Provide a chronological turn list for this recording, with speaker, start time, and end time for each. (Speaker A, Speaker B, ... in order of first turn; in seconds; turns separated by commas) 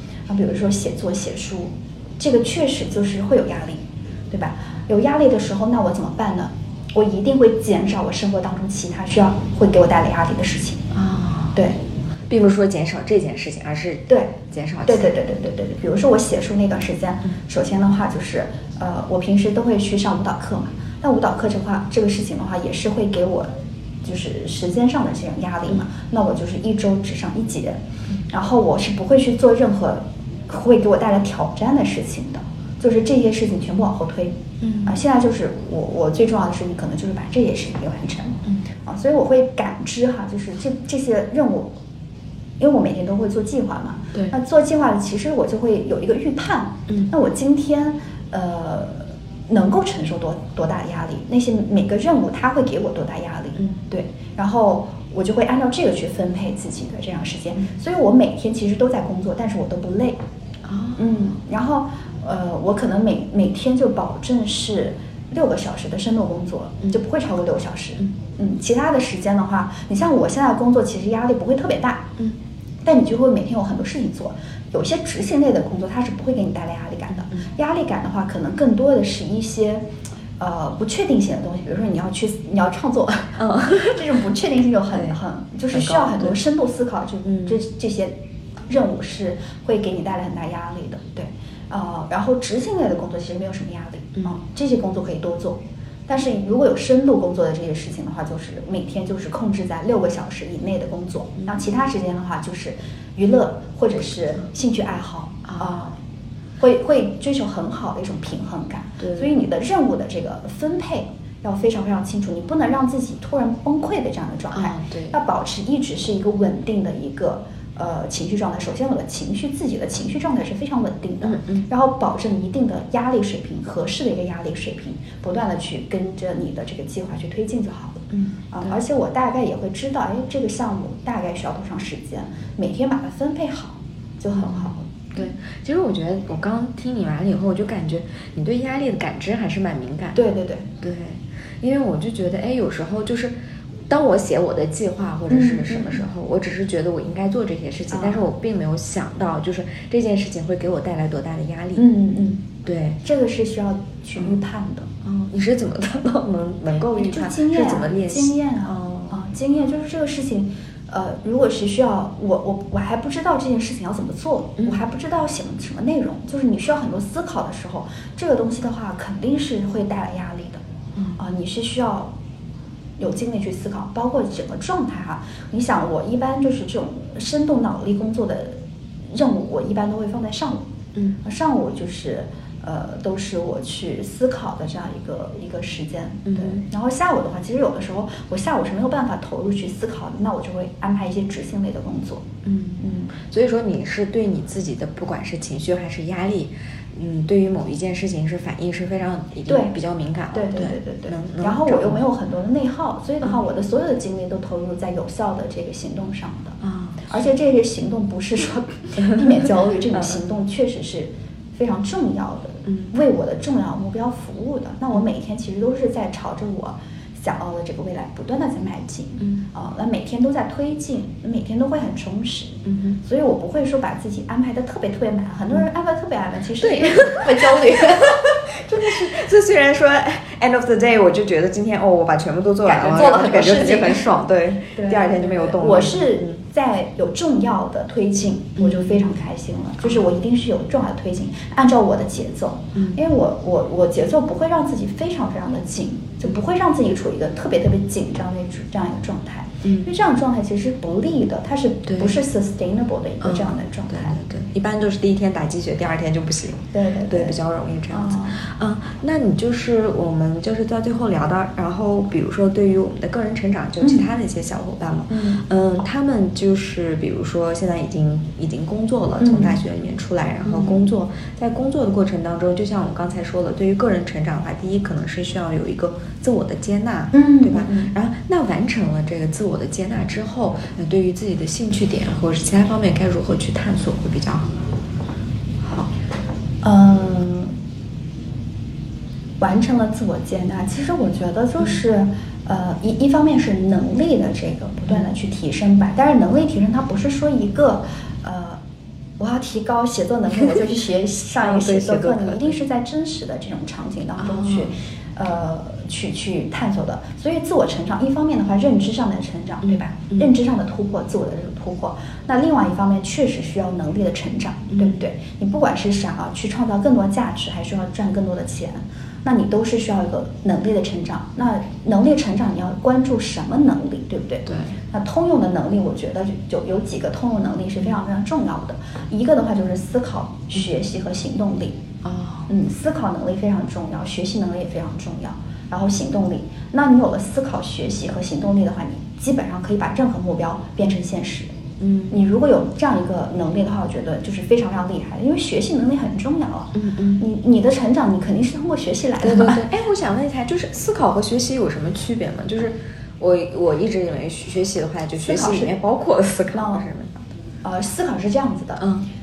Speaker A: 0.3-10.8, Speaker B: 10.9-11.6, Speaker B: 12.3-15.1, Speaker A: 14.1-23.5, Speaker A: 24.0-41.7, Speaker B: 34.6-35.0, Speaker A: 42.6-60.2, Speaker B: 60.6-61.1, Speaker A: 61.0-72.1, Speaker A: 72.8-79.8, Speaker A: 80.4-88.1, Speaker B: 83.4-84.0, Speaker B: 85.7-86.4, Speaker B: 87.2-87.6, Speaker A: 88.7-105.9, Speaker B: 105.5-105.8, Speaker A: 106.6-134.9, Speaker B: 109.0-109.3, Speaker B: 114.5-115.1, Speaker B: 121.2-121.7, Speaker B: 128.1-128.8, Speaker B: 134.3-140.2, Speaker A: 140.1-140.7, Speaker B: 140.8-143.3, Speaker B: 143.9-151.9, Speaker A: 145.3-146.0, Speaker A: 147.9-148.2, Speaker A: 151.8-152.4, Speaker B: 152.6-153.0, Speaker A: 153.0-154.9, Speaker B: 155.0-159.2, Speaker A: 156.9-170.6, Speaker A: 171.2-172.1, Speaker A: 173.0-178.6, Speaker A: 179.1-180.7, Speaker A: 181.2-192.2, Speaker B: 186.3-186.6, Speaker B: 192.4-202.0, Speaker A: 192.8-193.1, Speaker A: 199.5-199.7, Speaker A: 200.3-229.1, Speaker B: 206.6-207.2, Speaker B: 222.7-223.0, Speaker B: 226.6-236.4, Speaker A: 232.6-234.2, Speaker A: 234.7-254.2, Speaker B: 238.6-239.1, Speaker B: 249.6-249.9, Speaker B: 251.9-252.2, Speaker B: 253.2-284.5, Speaker A: 256.7-257.4, Speaker A: 257.9-258.4, Speaker A: 263.8-264.1, Speaker A: 265.1-265.4, Speaker A: 269.2-269.6, Speaker A: 270.4-270.8, Speaker A: 277.1-277.9, Speaker A: 286.6-287.5, Speaker A: 289.4-298.6, Speaker A: 299.2-331.8, Speaker B: 301.4-302.6, Speaker B: 304.2-304.7, Speaker B: 309.6-310.2, Speaker B: 314.7-315.0, Speaker B: 324.4-324.7, Speaker B: 332.0-332.5, Speaker A: 332.5-341.5, Speaker B: 341.8-342.1, Speaker A: 342.1-349.6, Speaker B: 346.7-347.2, Speaker B: 349.2-357.2, Speaker A: 355.2-355.7, Speaker A: 356.5-356.8, Speaker A: 357.6-358.9, Speaker B: 358.8-359.1